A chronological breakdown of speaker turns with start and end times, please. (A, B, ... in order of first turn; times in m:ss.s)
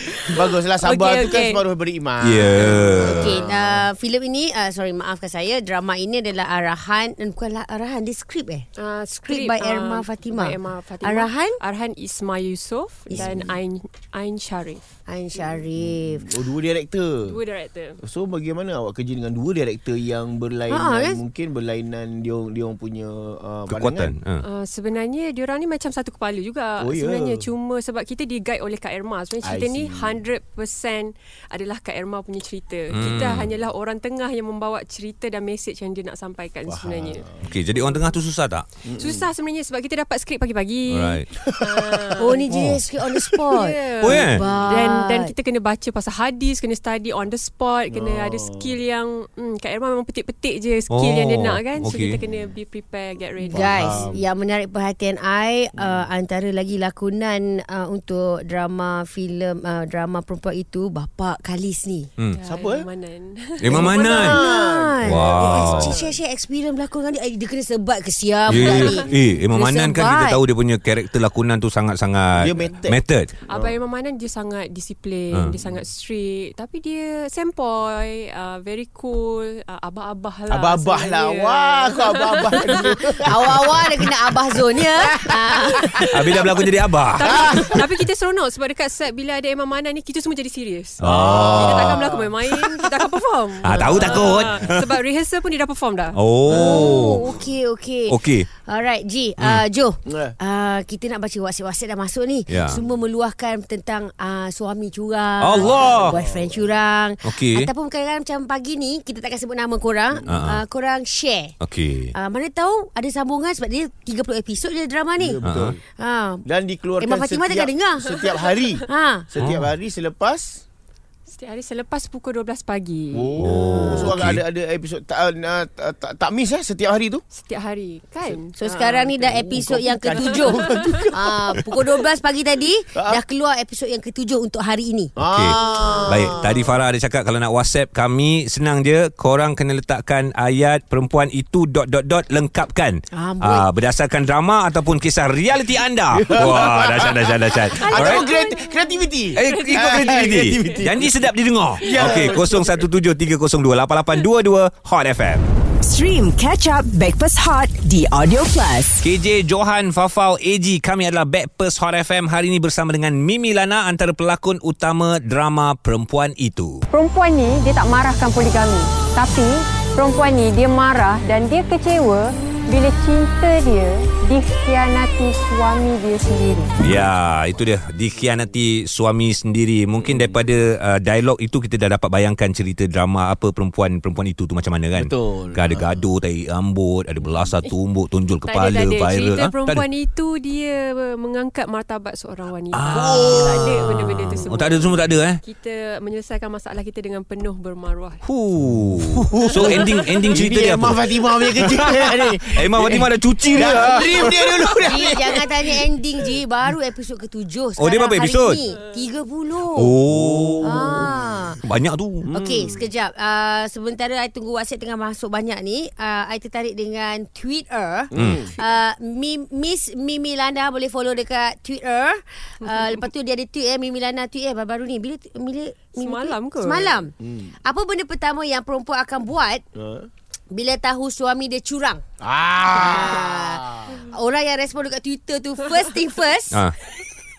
0:00.2-0:03.8 A
0:00.8-0:01.6 B
0:02.2-0:03.4 C
0:03.0-0:08.7 D
0:08.8-0:14.8 B
0:09.2-0:11.6 D
0:13.1-0:13.5 D
0:13.1-0:13.5 A
0:15.1-0:16.3 D
0:15.4-0:17.4 A
0:17.2-0:18.0 B
0:18.0-0:24.1 A
0:20.7-0:21.2 D
0:23.7-0:24.4 C
0:24.4-0:37.3 B
0:26.8-0:27.4 A
0:29.4-0:30.2 A
0:32.9-0:33.5 C
0:36.6-0:37.5 A
0:37.4-0:38.7 C
0:38.8-0:39.3 A
0:39.0-0:42.5 B
0:40.9-0:41.3 C
0:41.4-0:43.4 A
0:42.2-0:45.3 D
0:42.5-0:42.8 C
0:43.5-0:54.1 B
0:44.0-0:44.4 C
0:44.4-0:44.8 A
0:47.9-0:48.7 A
0:50.9-0:52.2 C
0:53.4-1:02.1 D
0:53.5-0:54.2 A
0:55.8-0:56.1 A
1:02.3-1:04.2 B
1:02.4-1:02.9 A
1:03.6-1:04.4 C
1:03.7-1:06.2 A
1:03.8-1:10.4 D
1:05.0-1:06.0 C
1:08.5-1:13.3 C
1:12.4-1:13.0 A
1:13.5-1:23.2 B
1:13.5-1:13.8 A
1:20.5-1:26.1 A
1:22.7-1:26.4 D
1:26.1-1:27.8 C
1:27.2-1:36.2 B
1:27.2-1:27.9 A
1:31.0-1:32.0 C
1:31.0-1:32.3 A
1:33.6-1:34.9 C
1:33.8-1:34.7 A
1:36.1-1:37.3 C
1:36.4-1:51.6 D
1:36.5-1:37.3 A
1:38.1-1:38.5 C
1:39.4-1:39.6 C
1:40.0-1:40.4 A
1:42.5-1:42.8 C
1:45.4-1:46.2 C
1:45.6-1:46.7 A
1:47.2-1:47.7 C
1:50.2-1:50.6 C
1:51.6-1:52.1 C
1:52.1-1:55.4 D
1:55.2-1:55.8 A
1:55.4-1:55.8 C
1:56.0-1:56.4 D
1:56.4-2:00.6 A
1:57.0-1:58.3 D
1:58.8-1:59.3 D
1:59.4-1:59.6 C
2:01.3-2:04.1 B
2:03.1-2:07.2 A
2:03.4-2:04.4 C
2:07.3-2:11.0 B
2:08.6-2:16.6 D
2:09.3-2:11.6 A
2:12.9-2:13.2 A
2:15.2-2:16.6 A
2:15.2-2:28.2 C
2:23.1-2:23.7 D
2:26.1-2:31.2 A
2:27.8-2:28.6 D
2:28.0-2:28.8 B
2:29.3-2:35.4 C
2:29.4-2:30.8 B
2:31.8-2:32.9 A
2:31.8-2:32.3 B
2:35.8-2:39.0 E
2:39.0-2:46.8 C
2:46.9-2:49.4 F
2:48.0-2:48.6 B
2:49.1-2:49.5 B
2:50.0-2:50.4 B
2:50.0-2:52.2 F
2:51.1-2:52.1 B
2:52.7-2:53.5 B
2:52.9-2:56.7 F
2:54.4-2:54.9 B
2:56.8-3:09.8 C
2:56.8-2:57.1 A
3:00.0-3:00.4 A
3:04.9-3:06.0 A
3:08.5-3:18.2 B
3:12.7-3:15.4 C
3:12.9-3:13.9 A
3:18.2-3:24.4 C
3:19.0-3:25.9 A
3:19.6-3:20.3 B
3:23.6-3:30.0 D
3:27.8-3:28.6 C
3:29.7-3:32.3 C
3:30.1-3:31.1 A
3:30.6-3:31.6 D
3:32.2-3:32.8 A
3:32.3-3:47.1 D
3:38.1-3:38.5 A
3:38.1-3:38.4 C
3:45.9-3:47.0 B
3:47.2-3:47.5 A
3:47.6-3:49.6 D
3:49.8-3:50.1 A
3:50.5-3:52.0 D
3:52.2-3:54.0 A
3:52.7-3:56.7 D